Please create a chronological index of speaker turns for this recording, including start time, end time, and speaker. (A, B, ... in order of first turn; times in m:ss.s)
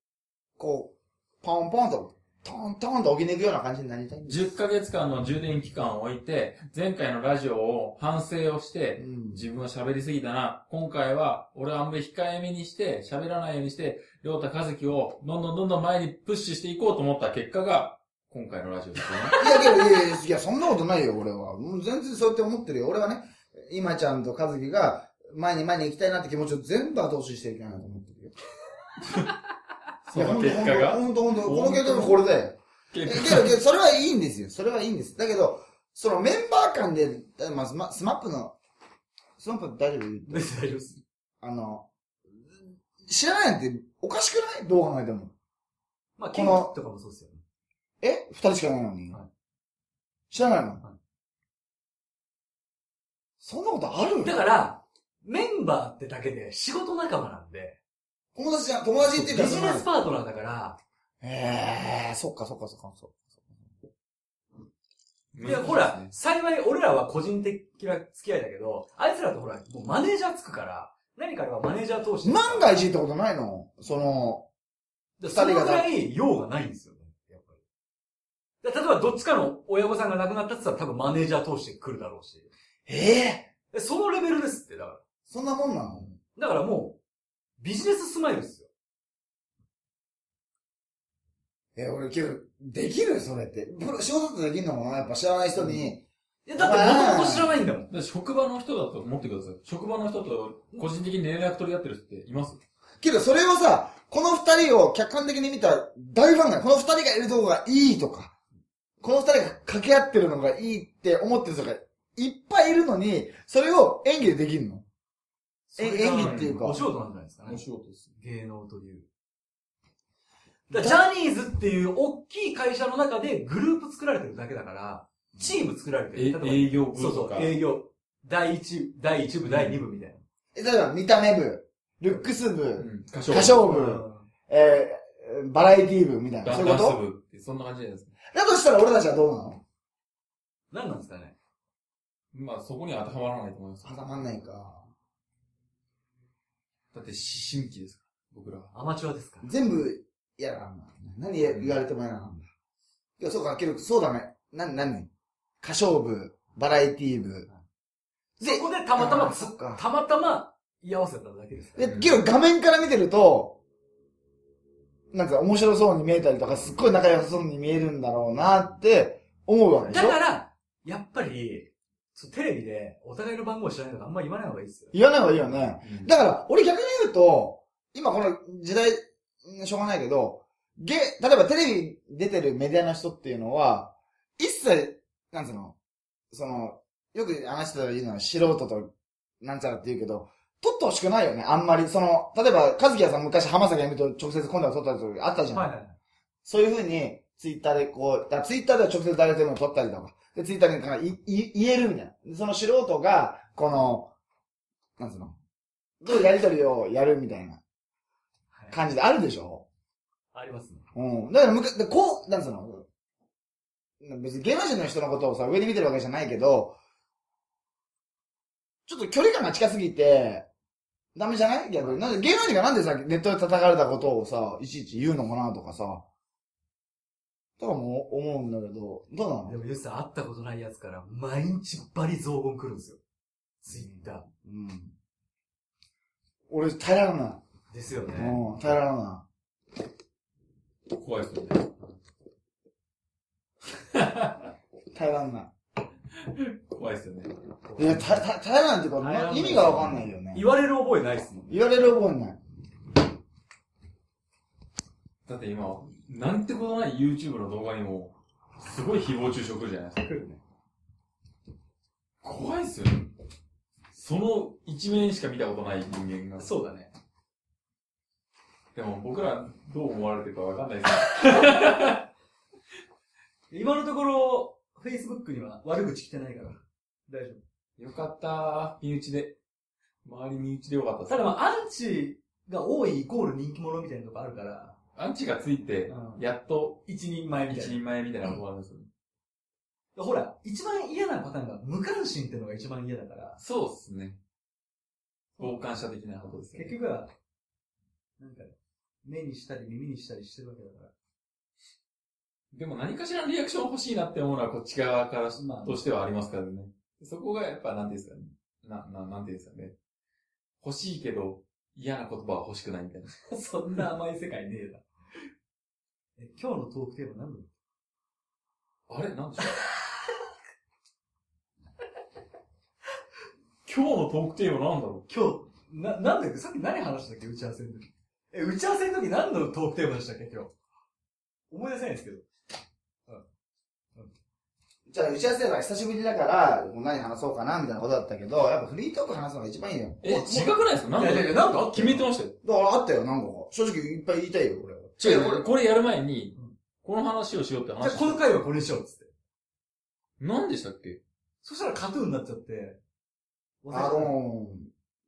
0:00.6-0:04.5 A
0:04.2-0:19.4 B
0:09.0-0:09.5 A
0:19.4-0:28.4 A
0:30.1-0:32.2 B
0:30.1-0:38.6 A
0:32.9-0:33.6 B
0:39.4-0:40.5 A
0:40.3-0:41.0 C
0:41.4-0:41.9 A
0:42.5-0:45.3 A
0:46.2-0:47.4 C
0:46.3-0:46.7 A
0:48.0-0:49.2 A
0:50.3-0:50.8 A
0:53.4-0:54.4 A
0:54.2-0:57.8 C
0:58.4-0:59.9 A
0:59.0-1:00.8 C
1:01.2-1:03.3 A
1:05.3-1:06.1 B
1:05.4-1:12.8 C
1:12.2-1:14.5 A
1:15.2-1:17.6 C
1:15.3-1:15.9 A
1:18.6-1:22.5 C
1:22.9-1:23.5 A
1:23.7-1:25.0 C
1:25.3-1:26.1 A
1:26.1-1:27.0 C
1:27.6-1:28.7 C
1:31.8-1:36.0 A
1:35.6-1:35.8 C
1:36.5-1:37.9 C
1:36.6-1:37.6 A
1:37.9-1:42.6 B
1:43.0-1:48.3 A
1:49.0-1:54.8 A
1:55.7-1:57.6 C
1:55.8-1:56.8 A
1:56.2-1:56.6 B
1:57.5-1:58.1 B
1:58.2-1:59.1 C
2:00.7-2:10.2 C
2:00.7-2:01.1 A
2:06.1-2:07.6 B
2:09.4-2:09.8 B
2:10.5-2:17.0 A
2:12.8-2:13.6 B
2:13.5-2:14.3 C
2:16.4-2:18.1 B
2:18.3-2:19.6 A
2:20.7-2:21.4 C
2:22.3-2:23.9 B
2:23.8-2:24.8 A
2:26.9-2:28.7 B
2:28.7-2:29.5 C
2:29.4-2:32.5 A
2:31.4-2:31.8 B
2:33.2-2:35.1 A
2:35.6-2:37.5 A
2:38.4-2:39.8 A
2:38.4-2:41.9 C
2:41.8-2:43.6 A
2:41.8-2:42.2 B
2:45.1-2:50.2 A
2:49.8-2:54.9 C
2:54.9-3:05.8 A
2:55.5-2:56.1 B
3:06.3-3:15.7 A
3:15.5-3:16.0 C
3:16.4-3:24.1 A
3:25.0-3:25.4 A
3:26.0-3:27.6 A
3:28.7-3:29.6 A
3:30.3-3:30.8 C
3:31.0-3:32.9 A
3:34.0-3:36.8 A
3:38.9-3:40.5 A
3:41.1-3:46.1 A
3:41.8-3:42.1 C
3:47.6-3:49.6 A
3:49.5-3:53.0 C
3:53.6-3:54.3 C
3:53.6-3:54.9 A
3:56.5-3:57.4 A
3:57.7-3:58.4 C
3:58.1-3:59.2 A
4:00.9-4:01.7 B
4:03.9-4:04.5 B
4:04.9-4:05.5 A
4:06.4-4:07.3 B
4:07.6-4:08.2 C
4:07.8-4:10.6 A
4:09.0-4:11.6 C
4:11.5-4:12.4 A
4:15.2-4:20.2 B
4:20.0-4:20.4 C
4:22.2-4:23.1 B
4:23.9-4:26.5 B
4:26.4-4:26.9 C
4:28.7-4:32.0 B
4:31.3-4:31.9 C
4:33.5-4:37.4 C
4:37.8-4:39.4 B
4:40.0-4:41.4 B
4:41.1-4:44.8 C
4:45.0-4:46.8 B
4:45.9-4:46.2 C
4:46.8-4:47.8 C
4:47.5-4:48.9 B
4:50.0-4:53.4 C
4:53.4-4:54.2 B
4:55.4-4:55.7 C
4:55.4-4:56.8 B
4:56.2-4:57.1 C
4:58.2-5:00.9 C
5:02.5-5:09.8 B
5:05.4-5:05.8 C
5:10.6-5:13.8 B
5:13.3-5:14.8 C
5:16.2-5:17.5 C
5:18.9-5:19.6 B
5:23.6-5:25.0 B
5:25.1-5:30.5 C
5:31.5-5:32.2 C
5:34.9-5:40.6 A
5:40.0-5:42.4 B
5:40.9-5:42.1 C
5:42.4-5:45.5 A
5:45.0-5:48.2 B
5:47.8-5:49.1 C
5:50.2-5:51.0 B
5:51.4-5:52.8 C
5:53.6-5:54.1 C
5:53.7-5:54.7 A